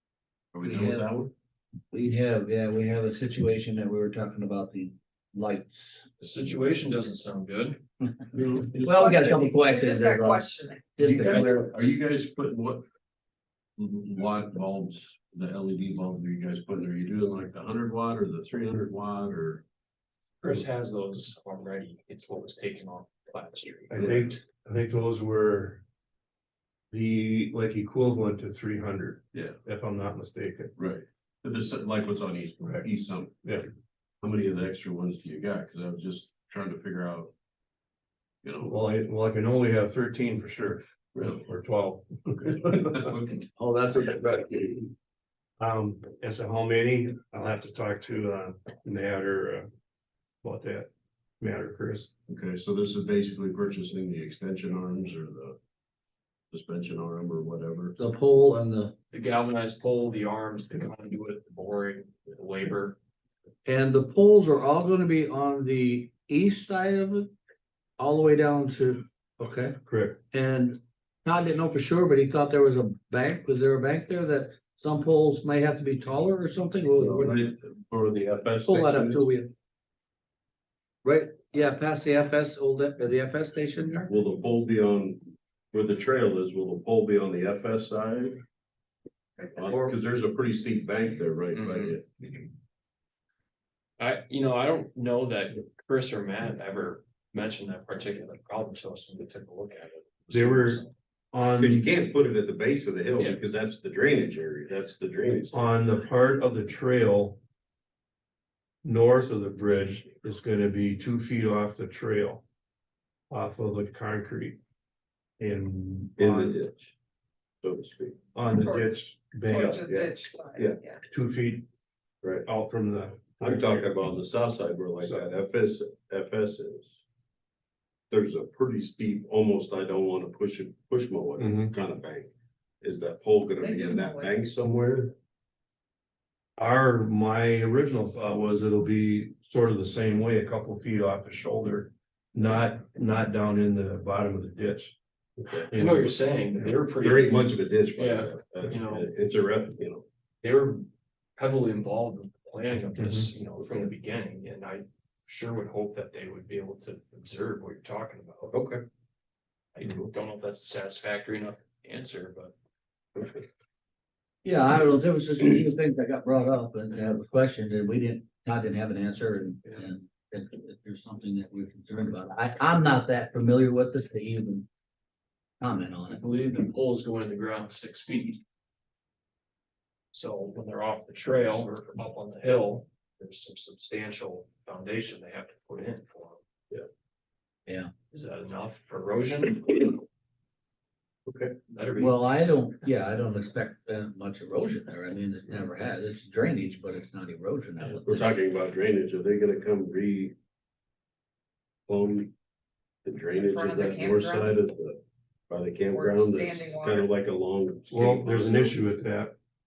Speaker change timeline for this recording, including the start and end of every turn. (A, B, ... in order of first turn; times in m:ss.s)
0:00.5-0:01.3 A
0:00.6-0:01.1 B
0:01.9-0:06.2 B
0:06.2-0:07.8 C
0:08.4-0:08.8 A
0:08.7-0:11.7 B
0:08.8-0:10.9 D
0:11.0-0:12.8 A
0:13.8-0:19.6 A
0:20.4-0:24.4 C
0:23.9-0:25.8 E
0:24.0-0:24.3 A
0:26.9-0:30.7 E
0:29.3-0:29.6 A
0:30.8-0:33.4 A
0:33.4-0:33.7 E
0:34.2-0:37.3 A
0:38.4-0:38.7 A
0:38.6-0:43.1 E
0:41.1-0:41.4 A
0:42.5-0:43.4 A
0:43.5-0:44.9 B
0:45.6-0:49.7 E
0:50.4-0:50.9 E
0:51.4-0:52.1 E
0:52.3-0:55.6 A
0:56.5-0:57.9 A
0:58.0-0:58.9 B
0:59.1-1:03.0 C
1:03.6-1:07.3 B
1:08.0-1:09.8 B
1:09.8-1:10.2 E
1:10.3-1:17.5 B
1:17.0-1:19.2 A
1:18.6-1:19.5 B
1:21.0-1:24.0 B
1:24.0-1:25.2 A
1:25.7-1:28.4 A
1:29.5-1:32.0 A
1:31.5-1:32.4 C
1:34.0-1:40.9 C
1:40.3-1:40.8 E
1:41.3-1:41.9 E
1:41.6-1:45.6 A
1:45.5-1:47.4 E
1:48.8-1:52.4 E
1:53.3-1:54.6 E
1:55.4-1:56.6 E
1:56.2-1:56.9 A
1:57.6-1:58.2 A
1:58.3-1:59.9 E
1:58.6-1:58.9 D
1:59.5-2:01.0 D
1:59.8-2:00.8 A
2:01.1-2:01.6 E
2:02.4-2:03.9 E
2:03.4-2:07.0 A
2:05.0-2:05.3 E
2:08.1-2:12.3 A
2:11.4-2:11.7 E
2:12.8-2:15.1 A
2:13.6-2:14.4 D
2:16.6-2:25.0 E
2:25.4-2:25.7 A
2:25.7-2:26.2 E
2:25.7-2:29.1 C
2:27.0-2:30.0 A
2:30.4-2:38.5 C
2:33.0-2:33.3 E
2:38.5-2:38.8 A
2:39.7-2:42.5 C
2:43.2-2:43.4 A
2:44.4-2:54.7 B
2:55.6-2:56.2 B
2:56.1-2:58.4 C
3:00.1-3:06.4 C
3:08.1-3:10.0 C
3:11.3-3:11.5 A
3:11.7-3:12.2 C
3:12.0-3:18.3 B
3:18.0-3:20.3 A
3:21.9-3:22.3 A
3:23.0-3:28.8 A
3:23.4-3:24.6 D
3:25.9-3:27.1 D
3:27.9-3:29.4 E